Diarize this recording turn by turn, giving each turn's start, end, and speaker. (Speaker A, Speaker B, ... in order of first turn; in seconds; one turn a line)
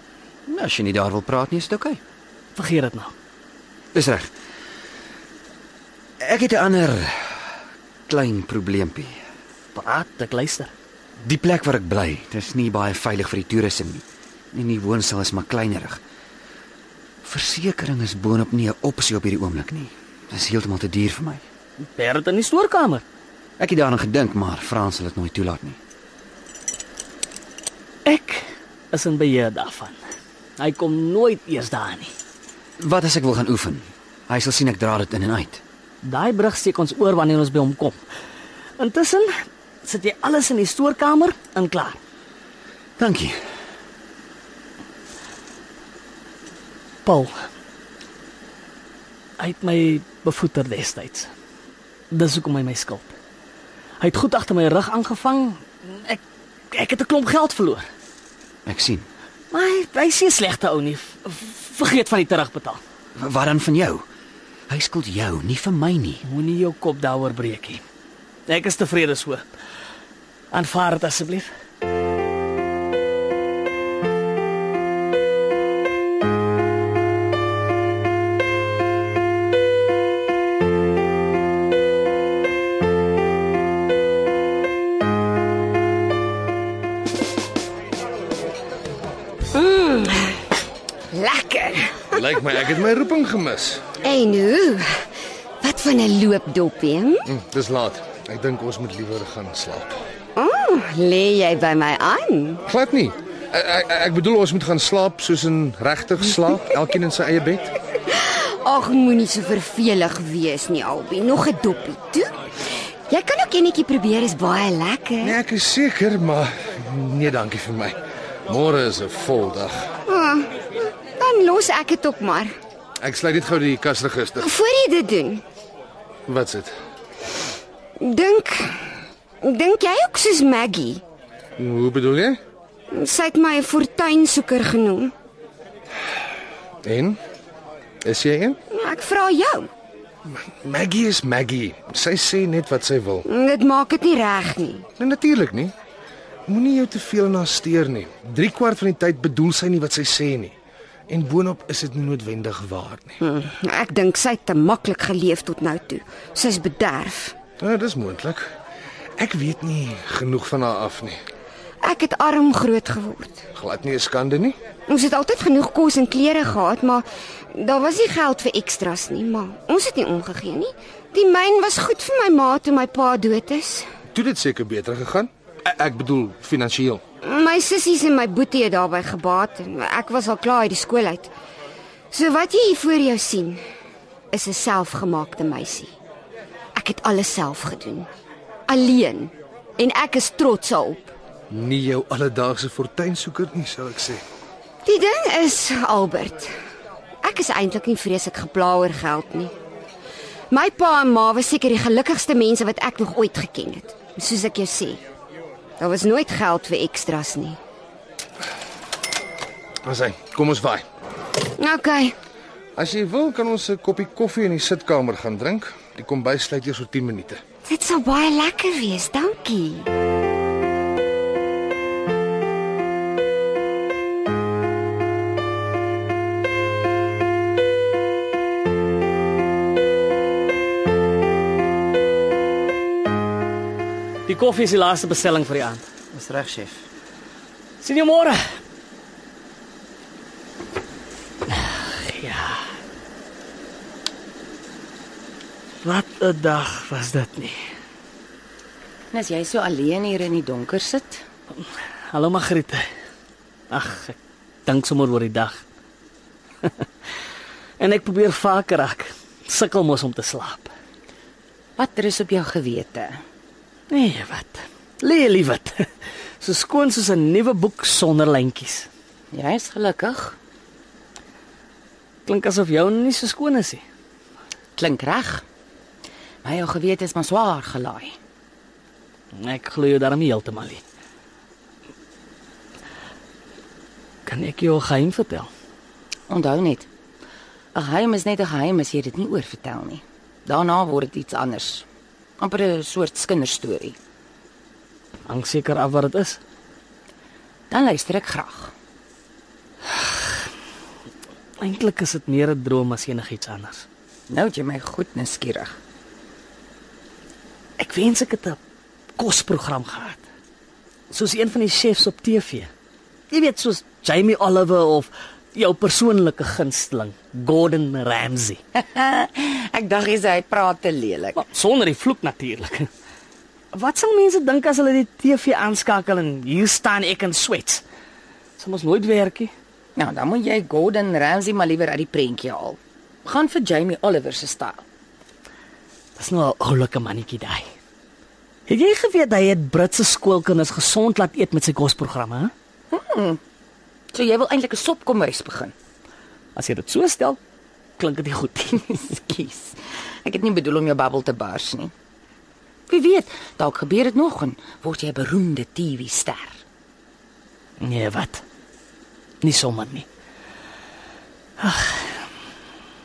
Speaker A: 0.5-2.0
Speaker B: 2.5-3.1
Speaker A: 3.9-4.3
Speaker A: 6.2-7.4
Speaker A: 8.1-9.2
Speaker B: 9.7-10.7
Speaker A: 11.2-16.0
Speaker A: 17.2-21.4
Speaker B: 21.9-23.0
Speaker A: 23.6-25.8
Speaker B: 28.0-30.0
Speaker B: 30.6-32.1
Speaker A: 32.8-35.6
Speaker B: 36.0-38.0
Speaker B: 38.8-39.3
Speaker B: 39.8-42.0
Speaker A: 43.0-43.4
Speaker B: 47.0-47.3
Speaker B: 49.4-51.3
Speaker B: 52.1-53.1
Speaker B: 54.0-56.2
Speaker B: 56.7-57.9
Speaker A: 58.6-59.1
Speaker B: 59.5-62.8
Speaker A: 63.1-64.0
Speaker A: 64.7-66.2
Speaker B: 66.2-67.8
Speaker B: 68.5-69.5
Speaker B: 70.5-71.5
Speaker C: 89.5-90.5
Speaker C: 91.1-92.2
Speaker D: 92.1-93.8
Speaker C: 94.0-94.9
Speaker C: 95.6-97.2
Speaker D: 97.2-100.0
Speaker C: 100.3-102.6
Speaker D: 102.7-107.7
Speaker C: 108.1-112.3
Speaker C: 113.1-115.4
Speaker D: 115.2-119.9
Speaker C: 120.1-120.5
Speaker C: 121.2-122.5
Speaker D: 123.0-124.5
Speaker C: 124.4-125.4
Speaker D: 126.3-126.7
Speaker C: 128.0-128.8
Speaker C: 129.4-131.0
Speaker D: 131.6-132.4
Speaker C: 132.9-135.1
Speaker D: 136.8-137.2
Speaker D: 138.0-138.6
Speaker C: 138.7-139.7
Speaker D: 140.3-143.2
Speaker C: 143.3-144.9
Speaker D: 145.0-145.7
Speaker D: 146.5-150.5
Speaker D: 151.1-153.2
Speaker C: 153.2-157.4
Speaker D: 157.6-158.5
Speaker D: 159.2-161.2
Speaker C: 161.8-163.4
Speaker D: 163.6-164.6
Speaker C: 164.9-173.9
Speaker D: 174.1-177.0
Speaker C: 177.2-181.3
Speaker C: 182.1-183.6
Speaker C: 184.3-185.9
Speaker C: 186.7-188.1
Speaker C: 188.7-191.1
Speaker D: 191.5-194.2
Speaker C: 194.8-196.5
Speaker C: 197.2-199.5
Speaker C: 200.5-205.0
Speaker C: 205.8-207.6
Speaker D: 209.8-210.8
Speaker C: 211.6-212.1
Speaker D: 212.8-217.4
Speaker C: 217.7-219.9
Speaker B: 234.2-235.8
Speaker A: 236.1-236.8
Speaker B: 237.8-238.4
Speaker B: 241.5-242.7
Speaker B: 245.8-247.6
Speaker E: 249.1-251.2
Speaker B: 252.1-252.8
Speaker B: 253.7-255.6
Speaker B: 257.8-260.7
Speaker E: 261.8-263.2
Speaker B: 263.9-265.9
Speaker B: 266.4-268.9
Speaker E: 269.3-270.4
Speaker B: 272.2-273.8
Speaker E: 274.8-275.4
Speaker E: 276.4-278.1
Speaker B: 279.3-280.8
Speaker B: 284.2-285.5
Speaker E: 286.3-286.9
Speaker E: 287.7-291.8
Speaker E: 292.4-293.9
Speaker B: 295.3-296.4
Speaker E: 297.7-298.7
Speaker B: 299.9-300.2
Speaker B: 301.6-303.8
Speaker E: 304.3-305.8
Speaker B: 307.8-308.6
Speaker B: 309.2-310.2
Speaker B: 311.1-312.7
Speaker B: 313.3-318.6
Speaker E: 318.7-321.4
Speaker B: 321.3-322.9
Speaker B: 323.7-327.8
Speaker B: 328.6-329.5
Speaker E: 329.9-334.8
Speaker B: 336.2-337.7
Speaker B: 338.7-342.5
Speaker E: 342.9-343.4
Speaker E: 344.1-345.7
Speaker B: 346.6-347.4
Speaker B: 348.0-348.9
Speaker E: 348.8-351.9
Speaker E: 352.9-356.6
Speaker B: 357.8-358.4
Speaker B: 359.4-360.1
Speaker B: 361.6-362.2